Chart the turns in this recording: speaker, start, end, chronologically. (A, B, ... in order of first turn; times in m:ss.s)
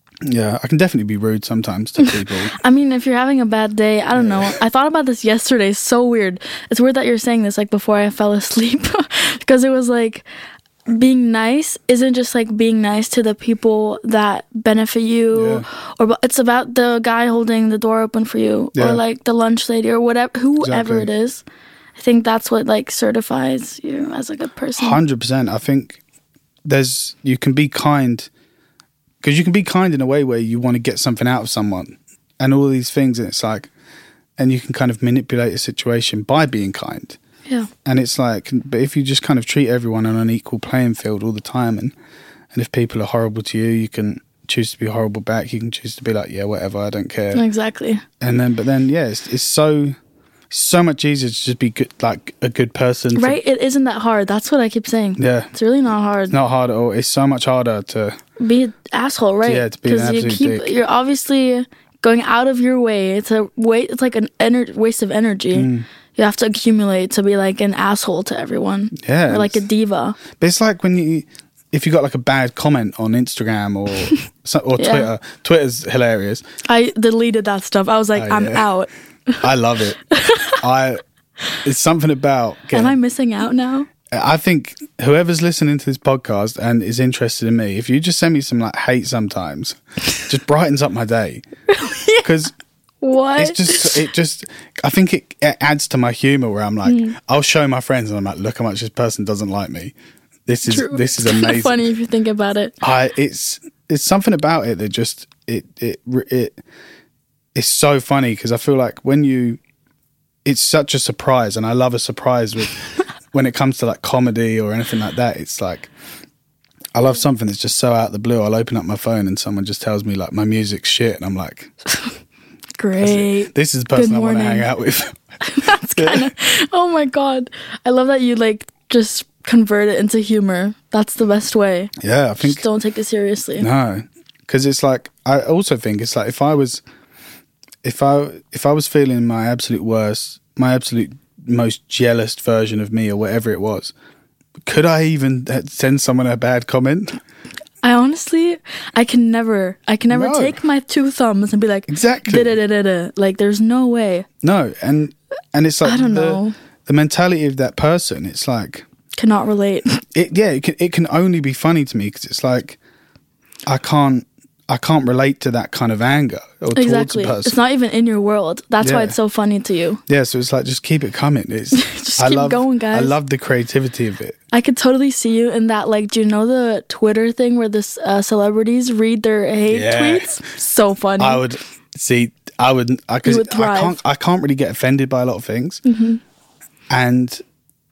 0:00.2-0:02.5 A
0:02.5-0:10.2 B
0:04.2-0:04.5 A
0:10.9-0:21.4 B
0:15.3-0:15.7 A
0:18.7-0:19.0 A
0:20.6-0:21.1 A
0:22.0-0:25.0 B
0:24.8-0:26.0 A
0:26.6-0:28.3 A
0:29.2-0:33.7 A
0:34.4-0:37.2 A
0:37.8-0:41.9 A
0:42.5-0:47.4 A
0:47.3-0:48.0 B
0:48.2-0:50.0 A
0:50.5-0:53.4 A
0:53.1-0:56.3 B
0:55.2-0:55.5 A
0:56.3-0:58.2 A
0:58.4-1:10.2 B
0:59.4-1:00.7 A
1:05.5-1:05.8 A
1:08.9-1:09.6 A
1:10.3-1:16.4 A
1:14.8-1:15.1 B
1:16.6-1:19.4 B
1:18.1-1:18.7 A
1:19.4-1:20.0 A
1:20.1-1:20.6 B
1:20.6-1:21.0 A
1:21.6-1:23.0 A
1:22.7-1:23.9 B
1:24.1-1:31.4 A
1:31.7-1:32.3 B
1:32.2-1:32.5 A
1:33.0-1:34.0 B
1:33.4-1:39.9 A
1:36.8-1:37.1 B
1:40.5-1:41.8 A
1:40.7-1:42.7 B
1:42.8-1:46.6 A
1:47.5-1:49.6 A
1:50.4-1:52.8 A
1:53.3-1:55.9 A
1:56.9-2:01.7 A
2:02.8-2:04.7 B
2:03.0-2:06.3 A
2:05.4-2:13.7 B
2:12.0-2:12.6 A
2:13.6-2:16.8 A
2:17.8-2:23.9 A
2:24.6-2:27.2 A
2:27.8-2:34.3 B
2:30.1-2:30.6 A
2:31.9-2:32.6 A
2:34.4-2:38.8 A
2:35.8-2:36.5 B
2:39.1-2:40.0 B
2:40.1-2:42.8 A
2:43.7-2:47.6 A
2:46.7-2:50.0 B
2:48.8-2:49.1 A
2:50.1-2:54.4 A
2:51.7-2:53.2 B
2:54.5-3:01.4 B
2:59.7-3:00.4 A
3:01.2-3:05.8 A
3:03.2-3:04.0 B
3:05.8-3:06.2 B
3:06.9-3:07.4 A